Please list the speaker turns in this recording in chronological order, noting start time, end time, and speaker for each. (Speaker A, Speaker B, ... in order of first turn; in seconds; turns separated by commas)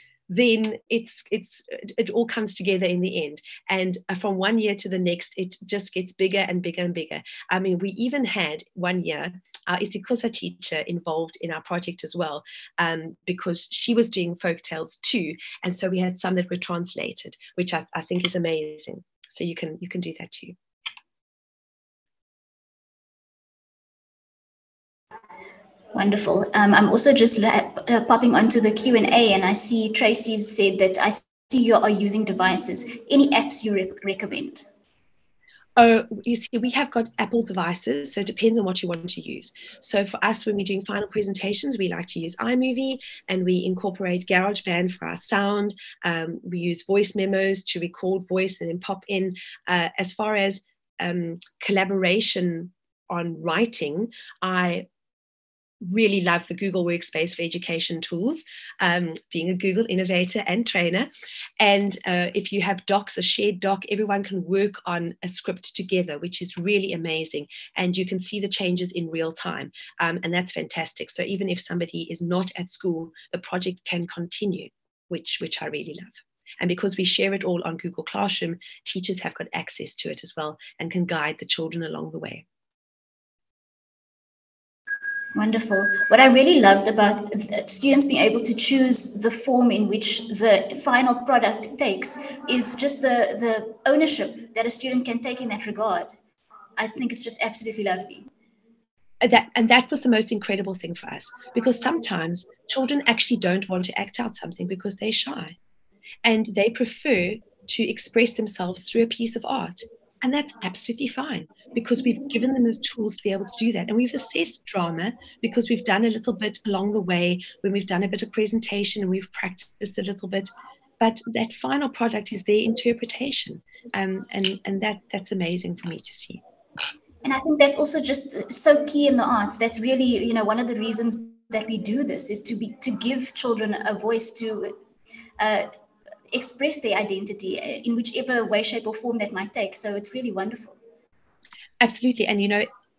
Speaker A: 0.3-20.6, Speaker B: 25.9-34.6, Speaker A: 35.8-54.9, Speaker A: 55.8-82.4, Speaker B: 85.3-96.1, Speaker B: 96.8-98.3, Speaker A: 99.2-105.5, Speaker A: 106.2-126.4, Speaker B: 127.2-134.7, Speaker B: 135.4-135.7, Speaker B: 136.3-140.8, Speaker A: 141.8-142.7